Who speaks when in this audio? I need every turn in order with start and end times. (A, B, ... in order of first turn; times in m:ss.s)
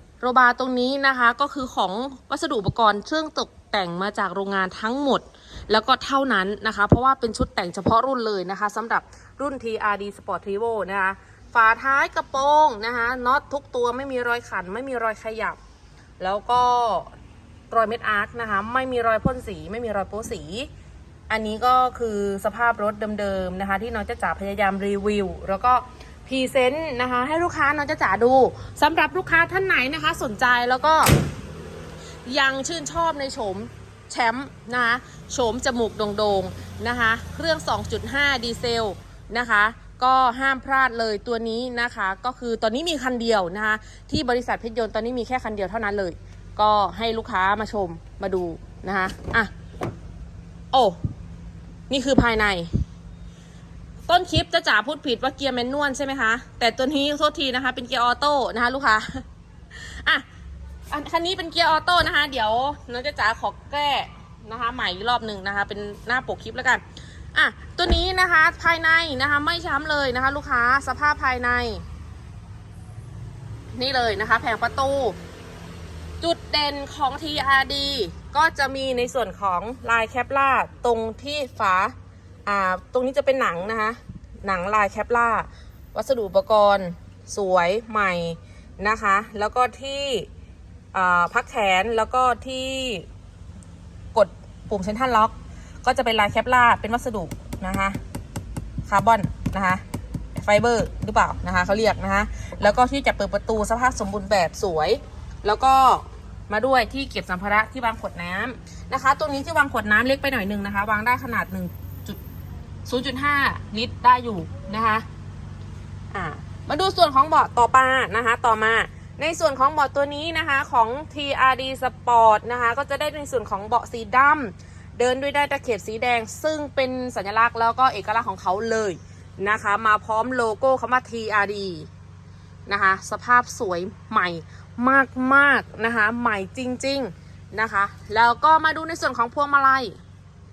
0:00.2-0:15.6 A
0:16.2-0:17.1 A
0:17.7-0:20.7 A
0:21.3-0:31.1 A
0:32.3-0:49.5 A
0:50.7-0:51.0 A
0:51.9-0:52.7 A
0:54.1-1:00.2 A
1:00.9-1:06.8 A
1:07.3-1:11.8 A
1:13.7-1:15.2 A
1:16.2-1:21.9 A
1:22.5-1:30.3 A
1:30.9-1:33.1 A
1:34.1-1:38.0 A
1:38.9-1:39.8 A
1:40.4-1:52.2 A
1:52.9-1:55.0 A
1:56.1-2:11.9 A
2:12.7-2:20.0 A